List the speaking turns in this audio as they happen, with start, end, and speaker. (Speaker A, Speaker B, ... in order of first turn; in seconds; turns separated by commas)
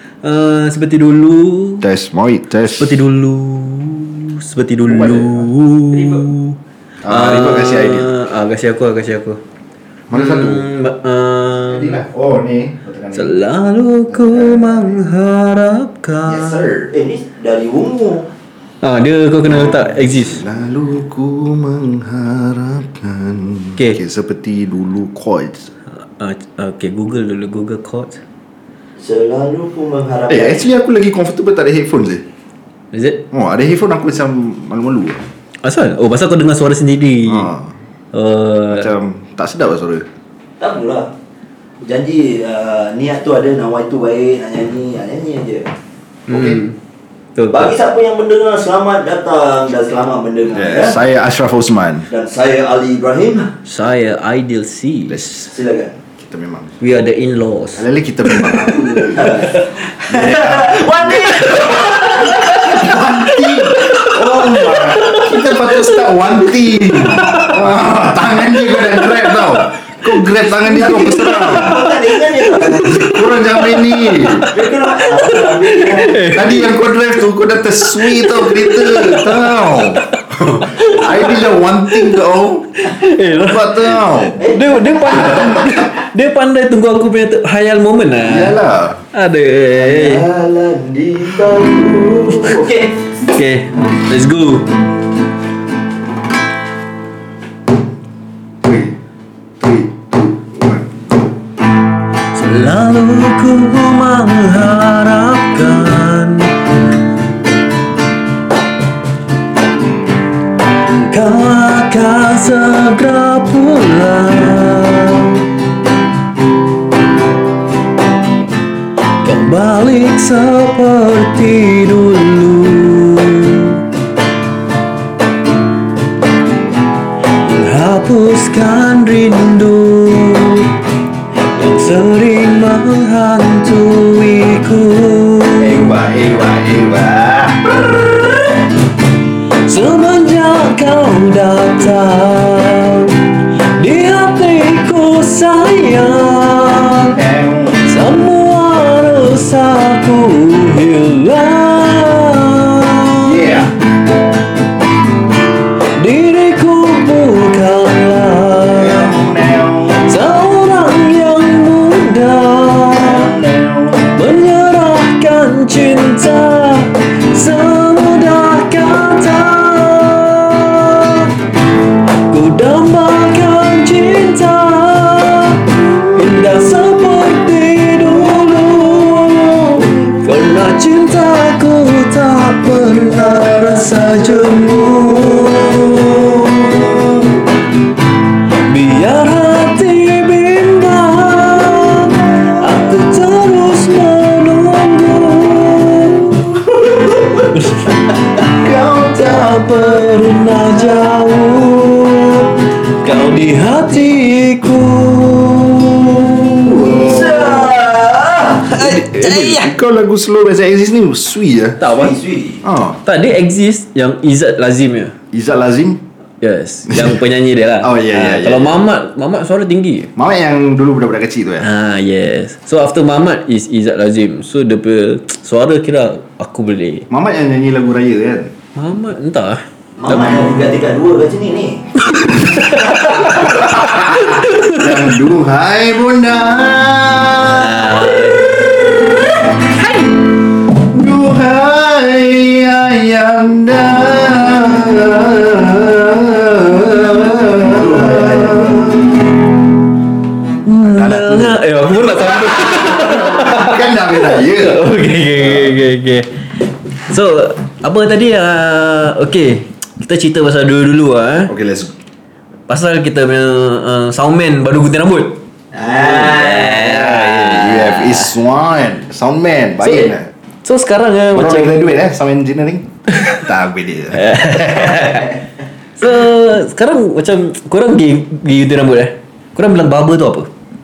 Speaker A: 0.2-1.8, Speaker B: 1.8-3.0, Speaker A: 2.7-9.4, Speaker B: 4.8-6.2, Speaker B: 7.0-8.1, Speaker B: 10.1-10.7, Speaker A: 10.1-12.0, Speaker B: 11.6-13.4, Speaker A: 13.1-16.6, Speaker B: 14.1-14.9, Speaker B: 16.2-16.9, Speaker C: 16.9-18.3, Speaker A: 18.8-20.4, Speaker B: 19.5-25.7, Speaker A: 25.9-28.2, Speaker C: 29.0-30.6, Speaker B: 30.3-32.2, Speaker A: 32.9-33.2, Speaker B: 33.3-35.2, Speaker A: 35.6-37.5, Speaker B: 37.3-37.7, Speaker A: 38.1-38.9, Speaker B: 38.7-40.0, Speaker C: 40.6-41.1, Speaker C: 41.8-45.7, Speaker B: 46.3-46.6, Speaker A: 46.3-46.7, Speaker A: 47.4-47.7, Speaker C: 47.5-51.0, Speaker B: 50.5-52.1, Speaker C: 52.1-53.5, Speaker A: 53.6-55.5, Speaker C: 55.4-56.0, Speaker B: 56.2-56.7, Speaker A: 56.8-58.6, Speaker B: 57.8-59.5, Speaker C: 58.6-63.0, Speaker A: 59.3-59.5, Speaker B: 60.0-71.8, Speaker C: 63.8-64.1, Speaker A: 64.0-66.0, Speaker A: 66.7-67.6, Speaker A: 68.5-76.8, Speaker C: 70.7-73.2, Speaker B: 72.8-74.5, Speaker C: 74.5-76.3, Speaker B: 76.3-84.4, Speaker A: 77.8-82.2, Speaker A: 82.8-88.6, Speaker C: 84.4-85.6, Speaker B: 88.2-89.0, Speaker A: 89.1-90.2, Speaker C: 89.7-93.0, Speaker A: 93.2-94.7, Speaker B: 98.6-99.0, Speaker B: 99.6-101.2, Speaker A: 102.3-106.7, Speaker A: 111.0-115.5, Speaker A: 119.2-123.8, Speaker A: 127.4-130.7, Speaker A: 131.5-135.9, Speaker B: 135.6-137.6, Speaker A: 137.8-138.6, Speaker A: 139.6-147.2, Speaker B: 147.1-147.9, Speaker A: 147.8-153.5, Speaker B: 153.2-153.7, Speaker A: 156.0-159.1, Speaker B: 158.6-160.2, Speaker A: 159.9-163.4, Speaker B: 162.9-164.2, Speaker A: 164.1-171.3, Speaker A: 172.3-187.1, Speaker A: 188.7-196.6, Speaker A: 197.2-198.0, Speaker C: 198.4-199.1, Speaker A: 198.5-206.8, Speaker B: 206.6-207.7, Speaker C: 206.6-209.0, Speaker B: 208.8-211.8, Speaker A: 208.8-209.7, Speaker A: 211.8-212.1, Speaker C: 211.8-212.6, Speaker B: 212.6-213.0, Speaker A: 213.0-215.1, Speaker B: 215.3-216.0, Speaker A: 216.4-220.1, Speaker B: 216.9-217.2, Speaker B: 217.8-218.8, Speaker B: 220.2-221.7, Speaker A: 221.6-227.1, Speaker B: 227.1-228.5, Speaker A: 228.8-230.2, Speaker C: 230.0-233.6, Speaker A: 232.3-235.0, Speaker B: 233.3-239.3, Speaker A: 237.4-238.5, Speaker B: 240.7-249.1, Speaker C: 247.7-249.0, Speaker A: 250.6-261.5, Speaker B: 250.8-254.8, Speaker B: 255.4-255.7, Speaker B: 261.5-261.9, Speaker A: 262.7-268.3, Speaker C: 265.7-266.8, Speaker B: 266.0-270.3, Speaker A: 269.8-271.8, Speaker B: 271.3-274.4, Speaker A: 274.1-275.4, Speaker A: 276.0-280.5